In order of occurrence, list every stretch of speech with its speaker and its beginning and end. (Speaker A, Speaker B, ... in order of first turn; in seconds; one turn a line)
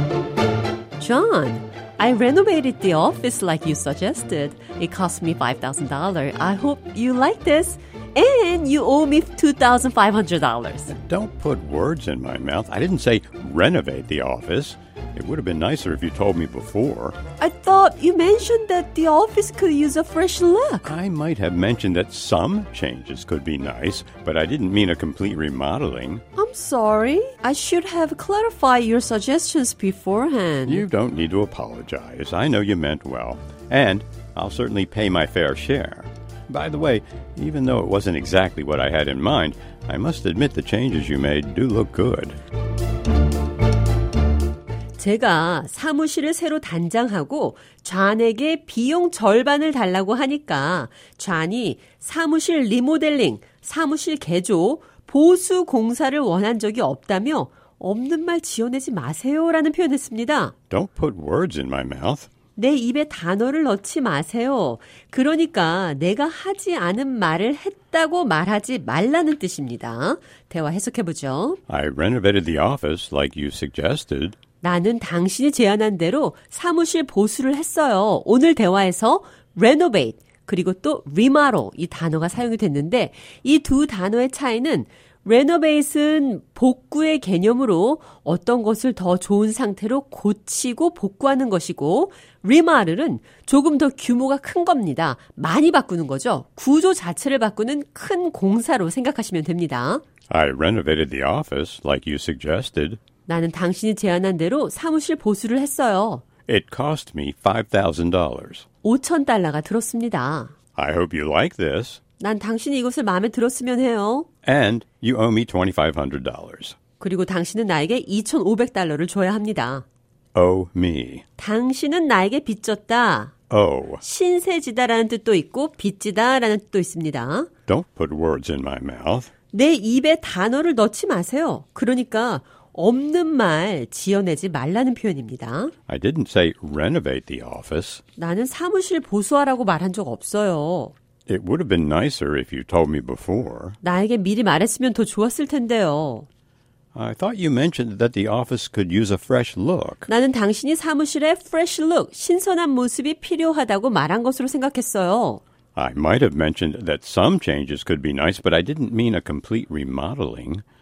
Speaker A: 1.0-10.9
Speaker B: 10.9-17.2
Speaker A: 17.4-20.9
Speaker B: 20.8-26.2
Speaker A: 26.4-30.9
Speaker B: 30.7-42.4
Speaker A: 45.0-60.5
Speaker B: 60.7-62.3
Speaker A: 62.5-71.6
Speaker B: 71.7-74.4
Speaker A: 74.6-100.0
Speaker B: 100.3-103.0
Speaker A: 103.3-106.2
Speaker B: 106.5-108.6
Speaker A: 108.8-110.5
Speaker B: 110.8-112.0
Speaker A: 112.2-114.3
Speaker B: 114.5-116.8
Speaker A: 117.0-119.8
Speaker B: 120.3-121.2
Speaker A: 121.4-123.3
Speaker B: 123.5-124.0
Speaker A: 124.0-127.5
Speaker B: 127.7-129.3
Speaker A: 129.5-135.7
Speaker B: 135.9-138.0
Speaker A: 138.2-140.9
Speaker B: 141.3-143.8
Speaker A: 143.8-146.3
Speaker B: 146.9-150.1
Speaker A: 150.1-155.4
Speaker B: 155.8-160.6